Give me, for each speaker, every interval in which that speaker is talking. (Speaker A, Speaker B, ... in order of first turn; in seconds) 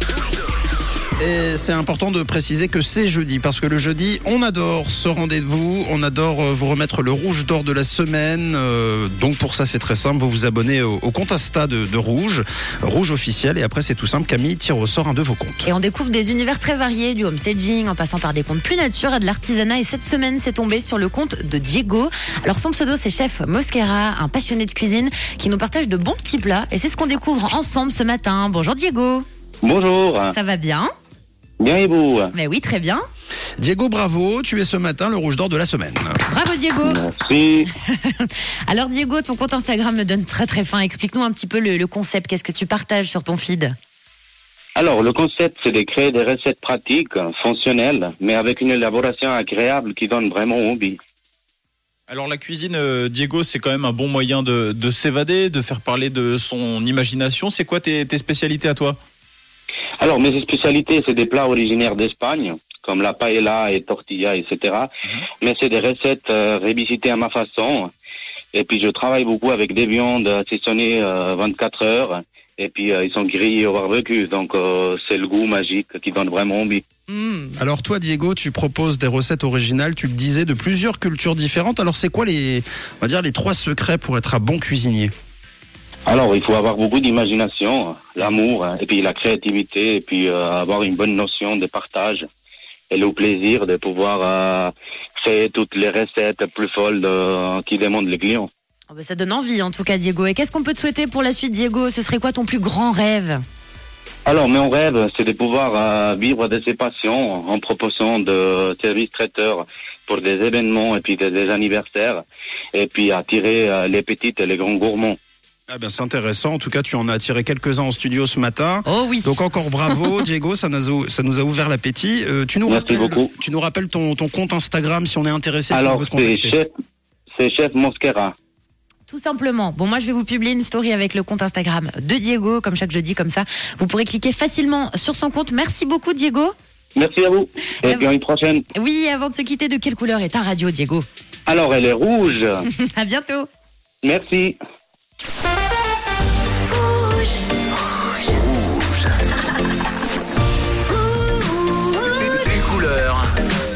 Speaker A: 1.2-15.7, 33.6-36.2, 77.5-85.1, 115.7-126.6
Speaker B: 15.7-29.2, 30.3-30.9, 32.3-33.0, 36.3-37.0, 37.8-43.8, 77.1-77.5, 98.9-103.4, 118.9-120.0, 129.1-136.5, 138.7-141.1, 142.7-143.5
Speaker C: 29.6-30.4, 31.6-32.3, 36.8-37.7, 44.8-51.0, 60.0-67.9, 68.5-76.9, 86.1-92.3, 92.9-98.5, 104.3-115.2, 122.7-123.3, 125.7-126.7, 127.3-128.3, 137.0-138.7, 141.5-142.7, 144.0-144.6
Speaker D: 52.1-59.0
Speaker E: 148.3-149.1, 152.2-153.3